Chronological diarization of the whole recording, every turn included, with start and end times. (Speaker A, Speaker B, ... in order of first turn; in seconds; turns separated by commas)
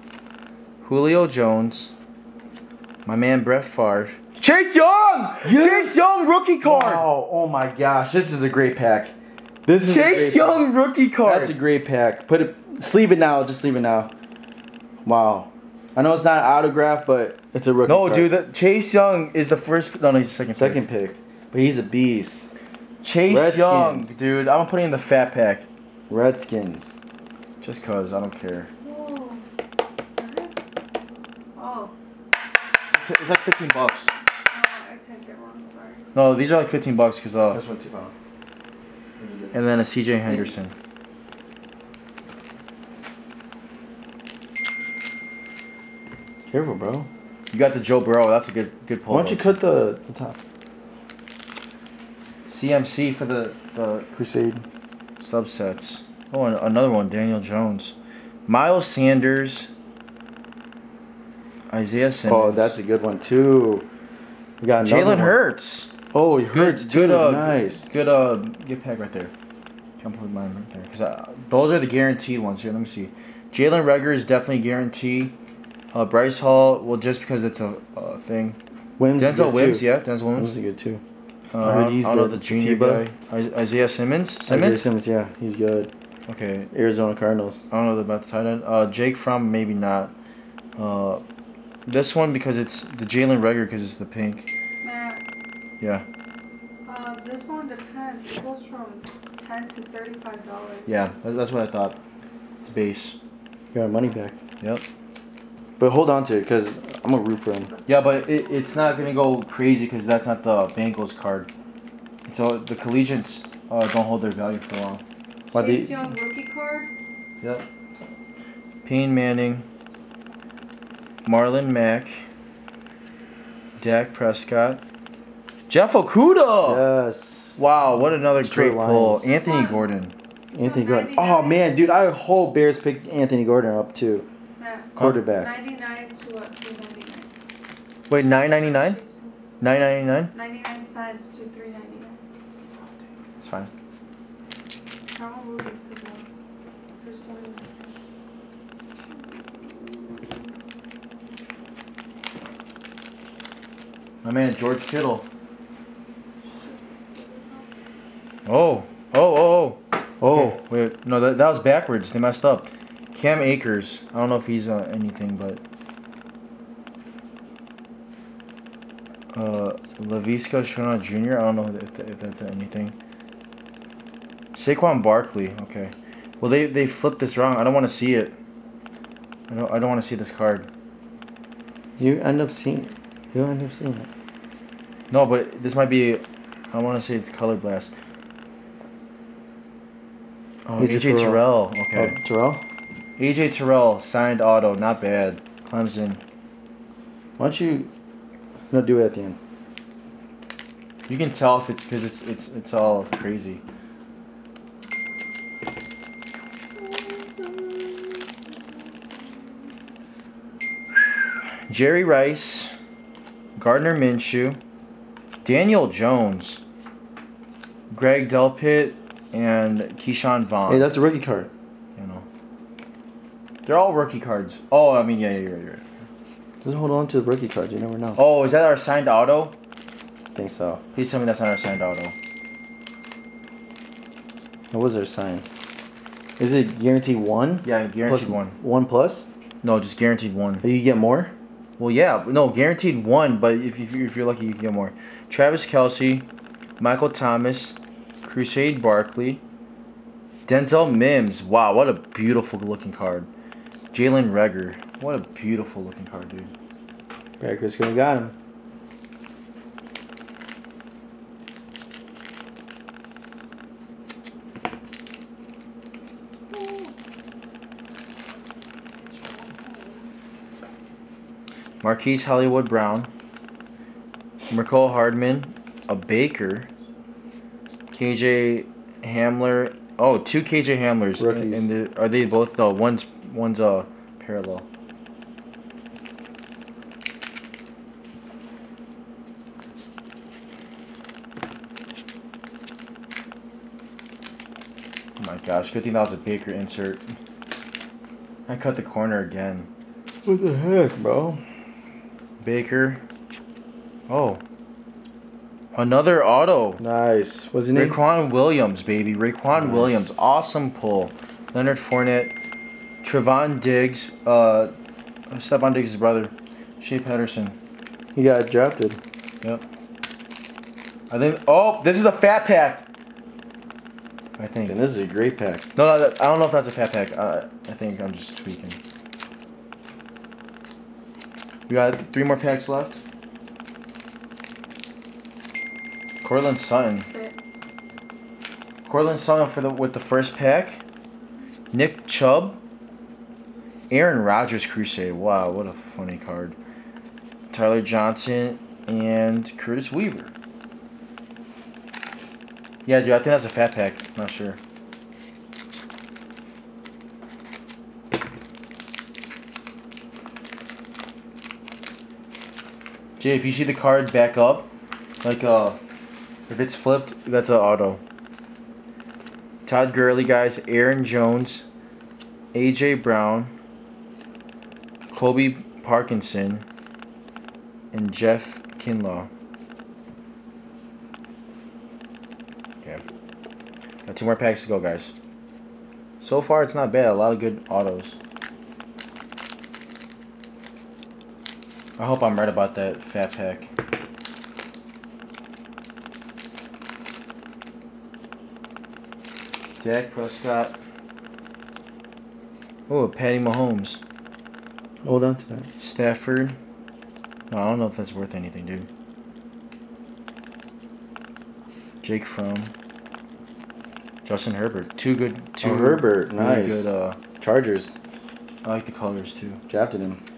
Speaker A: 0.8-1.9, Speaker A: 3.1-7.1, Speaker B: 5.4-6.0, Speaker B: 6.6-9.1, Speaker B: 9.7-10.7, Speaker A: 9.8-11.6, Speaker B: 11.2-14.1, Speaker B: 15.0-18.3, Speaker A: 17.9-20.8, Speaker B: 20.5-22.5, Speaker A: 23.0-25.7, Speaker B: 23.3-24.1, Speaker B: 26.1-27.0, Speaker A: 27.6-28.7, Speaker C: 28.8-29.5, Speaker C: 30.2-30.6, Speaker C: 31.6-31.9, Speaker A: 32.9-34.1, Speaker C: 34.5-36.0, Speaker A: 36.1-37.6, Speaker B: 37.5-38.1, Speaker B: 39.2-39.6, Speaker A: 39.5-40.7, Speaker B: 40.2-40.5, Speaker B: 46.5-47.1, Speaker A: 47.5-49.6, Speaker B: 49.1-50.4, Speaker A: 52.5-54.1, Speaker B: 54.1-54.6, Speaker A: 55.2-58.0, Speaker A: 58.5-59.7, Speaker A: 61.7-62.8, Speaker B: 62.3-63.9, Speaker B: 64.6-65.4, Speaker A: 64.8-65.9, Speaker B: 66.1-67.9, Speaker A: 66.5-69.3, Speaker A: 70.0-75.3, Speaker A: 75.9-78.6, Speaker B: 79.0-81.0, Speaker A: 79.2-80.5, Speaker A: 81.5-84.9, Speaker B: 81.6-83.1, Speaker B: 84.5-85.9, Speaker A: 86.3-86.7, Speaker B: 86.7-87.6, Speaker A: 87.7-90.1, Speaker A: 90.8-91.2, Speaker A: 91.9-94.5, Speaker C: 94.8-95.2, Speaker A: 95.8-96.0, Speaker C: 96.9-101.0, Speaker A: 100.9-102.0, Speaker A: 102.6-103.2, Speaker B: 103.7-104.4, Speaker B: 105.8-107.7, Speaker C: 107.6-109.2, Speaker A: 107.9-111.5, Speaker A: 112.3-115.0, Speaker B: 115.5-116.1, Speaker C: 115.5-116.9, Speaker A: 118.8-119.7, Speaker A: 121.3-122.3, Speaker A: 123.8-124.8, Speaker A: 125.7-126.8, Speaker B: 126.6-127.8, Speaker A: 127.6-130.1, Speaker B: 128.3-129.3, Speaker C: 129.3-129.9, Speaker B: 130.5-134.3, Speaker C: 130.6-131.7, Speaker C: 134.6-137.3, Speaker A: 135.0-135.2, Speaker B: 135.0-135.5, Speaker A: 138.1-139.0, Speaker C: 138.5-139.4, Speaker A: 139.6-140.3, Speaker C: 140.3-142.2, Speaker A: 143.4-143.7, Speaker C: 145.1-146.3, Speaker C: 147.0-147.9, Speaker C: 149.1-150.4, Speaker A: 154.2-155.3, Speaker C: 156.5-157.7, Speaker A: 158.5-165.6, Speaker B: 160.2-160.6, Speaker A: 169.3-172.9, Speaker A: 174.6-178.3, Speaker A: 179.5-180.7, Speaker B: 182.0-184.1, Speaker A: 185.1-187.9, Speaker A: 190.7-192.2, Speaker B: 190.8-192.6, Speaker A: 193.2-196.2, Speaker B: 197.4-197.9, Speaker B: 198.7-199.4, Speaker A: 201.1-203.6, Speaker C: 207.2-208.0, Speaker A: 210.9-212.8, Speaker A: 213.6-214.6, Speaker A: 215.4-216.6, Speaker A: 217.9-220.9, Speaker B: 220.7-221.5, Speaker A: 222.0-222.2, Speaker A: 223.7-225.8, Speaker B: 226.6-228.2, Speaker A: 228.2-229.6, Speaker B: 230.3-230.8, Speaker A: 230.9-232.1, Speaker B: 234.7-235.5, Speaker B: 236.4-239.3, Speaker A: 237.6-238.6, Speaker A: 239.6-240.6, Speaker B: 240.6-241.3, Speaker A: 241.8-246.3, Speaker A: 246.8-249.4, Speaker A: 250.5-253.3, Speaker A: 253.9-256.5, Speaker B: 257.4-258.3, Speaker C: 266.5-266.9, Speaker C: 269.3-270.0, Speaker A: 271.8-273.1, Speaker A: 274.5-276.7, Speaker A: 277.9-284.6, Speaker B: 281.2-281.7, Speaker A: 295.2-297.1, Speaker A: 298.5-299.7, Speaker B: 300.2-301.4, Speaker A: 302.4-303.0, Speaker A: 304.1-304.4, Speaker A: 305.8-306.8, Speaker B: 306.8-308.0, Speaker A: 307.7-312.3, Speaker B: 309.6-310.0, Speaker A: 313.0-314.8, Speaker A: 315.3-317.6, Speaker B: 318.1-319.0, Speaker A: 321.1-322.8, Speaker A: 324.4-324.8, Speaker B: 324.7-325.7, Speaker A: 325.8-328.8, Speaker A: 331.7-333.0, Speaker A: 336.2-337.1, Speaker C: 336.9-337.4, Speaker A: 338.9-340.8, Speaker A: 341.7-342.6, Speaker A: 343.9-346.6, Speaker A: 347.5-350.3, Speaker A: 352.9-354.6, Speaker A: 363.2-364.7, Speaker A: 365.2-365.8, Speaker A: 366.5-368.0, Speaker A: 369.6-371.7, Speaker A: 372.5-373.5, Speaker A: 375.1-376.6, Speaker A: 377.9-379.3, Speaker A: 384.1-385.1, Speaker A: 386.2-388.2, Speaker A: 392.0-393.7, Speaker A: 399.8-400.8, Speaker A: 402.9-404.0, Speaker B: 405.0-405.7, Speaker A: 405.8-406.6, Speaker A: 407.5-408.9, Speaker A: 412.0-412.7, Speaker A: 414.2-417.2, Speaker B: 415.6-418.0, Speaker A: 418.6-419.6, Speaker B: 419.7-420.2